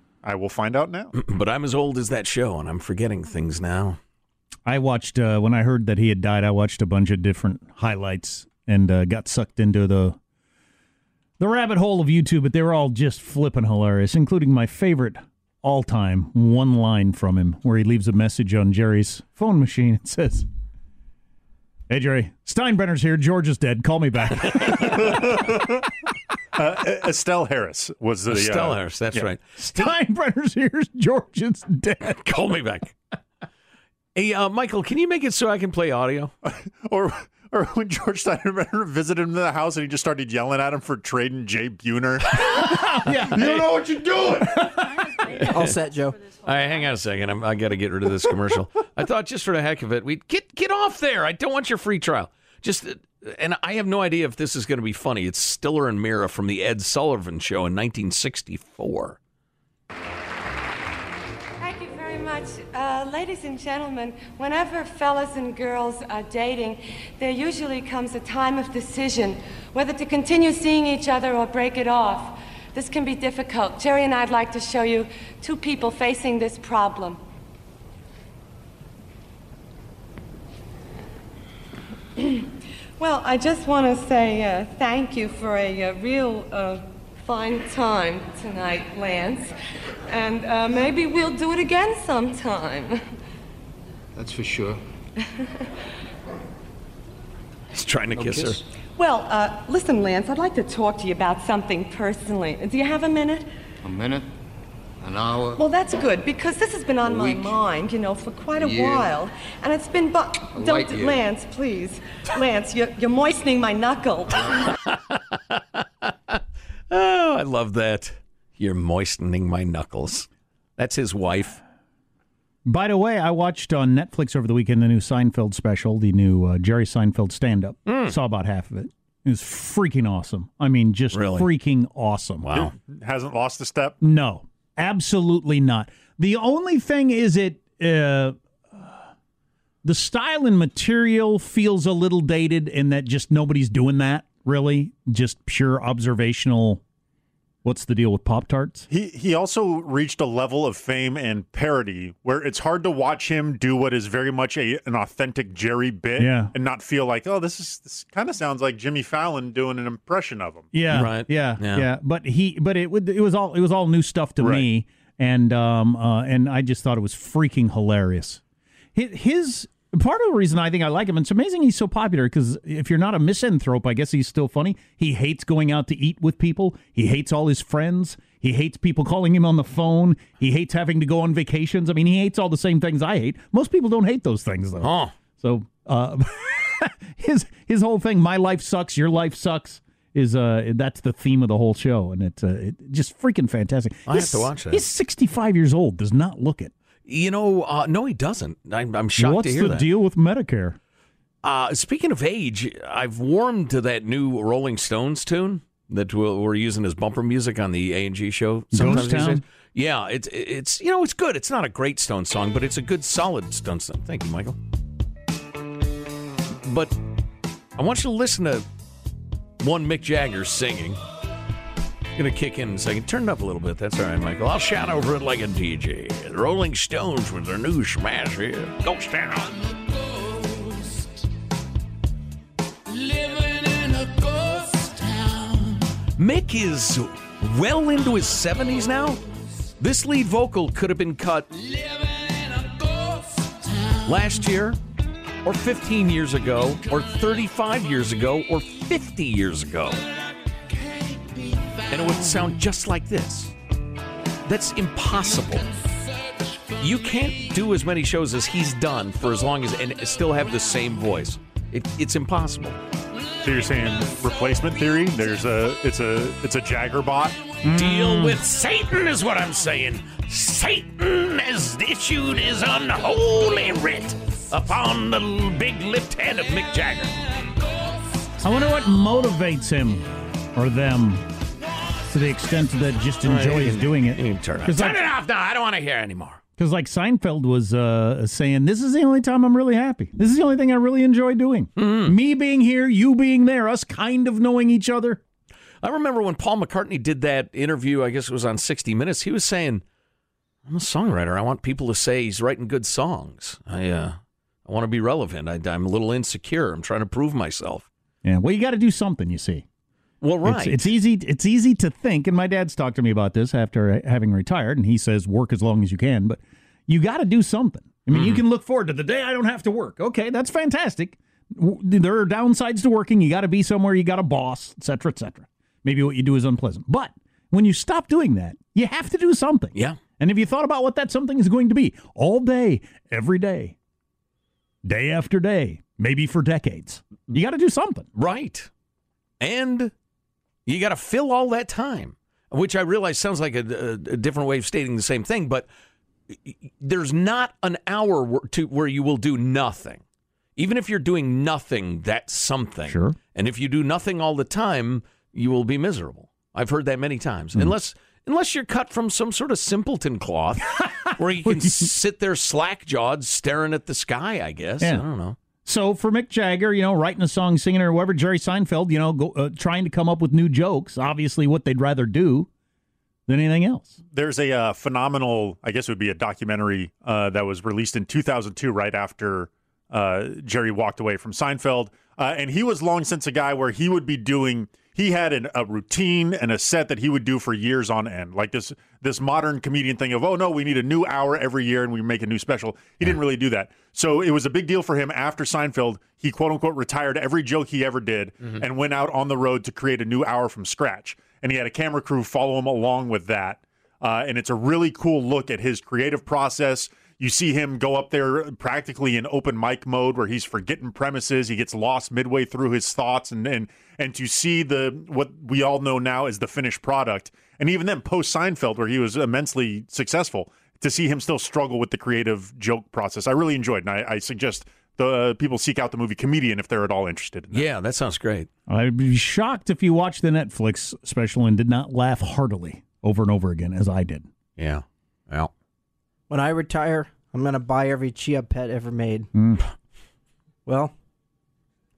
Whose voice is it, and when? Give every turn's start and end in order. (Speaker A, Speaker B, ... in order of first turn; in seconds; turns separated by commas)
Speaker A: 0.2-1.1, Speaker B: 1.1-4.0, Speaker C: 4.7-10.2, Speaker C: 11.4-20.4, Speaker C: 21.9-25.2, Speaker A: 24.7-25.9, Speaker A: 26.5-29.3, Speaker B: 28.3-29.4, Speaker C: 29.6-32.2, Speaker B: 32.0-33.0, Speaker B: 34.1-36.3, Speaker A: 36.4-44.7, Speaker C: 42.7-43.6, Speaker B: 45.1-45.8, Speaker D: 45.5-46.2, Speaker B: 46.4-59.2, Speaker E: 61.6-77.2, Speaker E: 82.2-82.5, Speaker E: 83.0-89.5, Speaker E: 90.1-93.0, Speaker F: 94.2-94.8, Speaker B: 97.7-98.6, Speaker F: 98.1-98.6, Speaker E: 99.0-103.5, Speaker F: 103.8-104.3, Speaker F: 105.0-105.6, Speaker E: 105.5-114.6, Speaker F: 107.0-107.5, Speaker F: 108.6-109.1, Speaker F: 110.6-111.2, Speaker B: 114.8-116.4, Speaker B: 116.9-121.6, Speaker C: 122.6-132.5, Speaker B: 127.9-128.1, Speaker B: 131.1-131.5, Speaker B: 132.4-132.7, Speaker A: 132.5-134.0, Speaker C: 134.0-138.9, Speaker C: 139.8-146.8, Speaker C: 147.6-148.9, Speaker A: 148.9-160.7, Speaker C: 156.2-156.5, Speaker C: 160.7-168.4, Speaker B: 160.9-161.9, Speaker A: 164.4-164.7, Speaker C: 168.9-196.7, Speaker B: 184.8-185.1, Speaker B: 194.1-194.8, Speaker B: 197.1-199.8, Speaker C: 199.2-200.8, Speaker B: 201.4-214.6, Speaker C: 208.7-209.4, Speaker B: 216.6-216.9, Speaker B: 217.8-218.7, Speaker B: 219.6-221.0, Speaker B: 222.2-229.7, Speaker B: 233.3-235.3, Speaker B: 236.2-239.2, Speaker B: 239.8-241.9, Speaker B: 244.0-244.8, Speaker B: 245.4-250.0, Speaker B: 251.9-253.5, Speaker B: 254.4-255.7, Speaker B: 256.8-262.8, Speaker A: 263.4-267.4, Speaker C: 267.6-268.4, Speaker B: 267.7-277.1, Speaker C: 278.4-281.2, Speaker C: 282.1-285.0, Speaker B: 283.2-286.4, Speaker C: 286.6-295.2, Speaker B: 291.8-292.1, Speaker B: 295.8-299.8, Speaker B: 300.6-307.9, Speaker C: 308.2-309.6, Speaker B: 310.2-310.9, Speaker C: 310.4-333.8, Speaker B: 318.1-318.4, Speaker C: 334.8-338.1, Speaker B: 338.1-338.7, Speaker B: 339.4-339.9, Speaker B: 340.6-345.7, Speaker B: 346.3-350.0, Speaker B: 350.6-365.4, Speaker C: 352.9-353.1, Speaker C: 361.4-361.9, Speaker C: 364.8-365.1, Speaker C: 365.6-372.5, Speaker C: 373.3-374.0, Speaker A: 374.1-427.7, Speaker B: 427.5-428.5, Speaker C: 428.7-434.3, Speaker B: 434.6-435.5, Speaker D: 436.3-439.3, Speaker C: 439.3-439.6, Speaker D: 440.6-440.9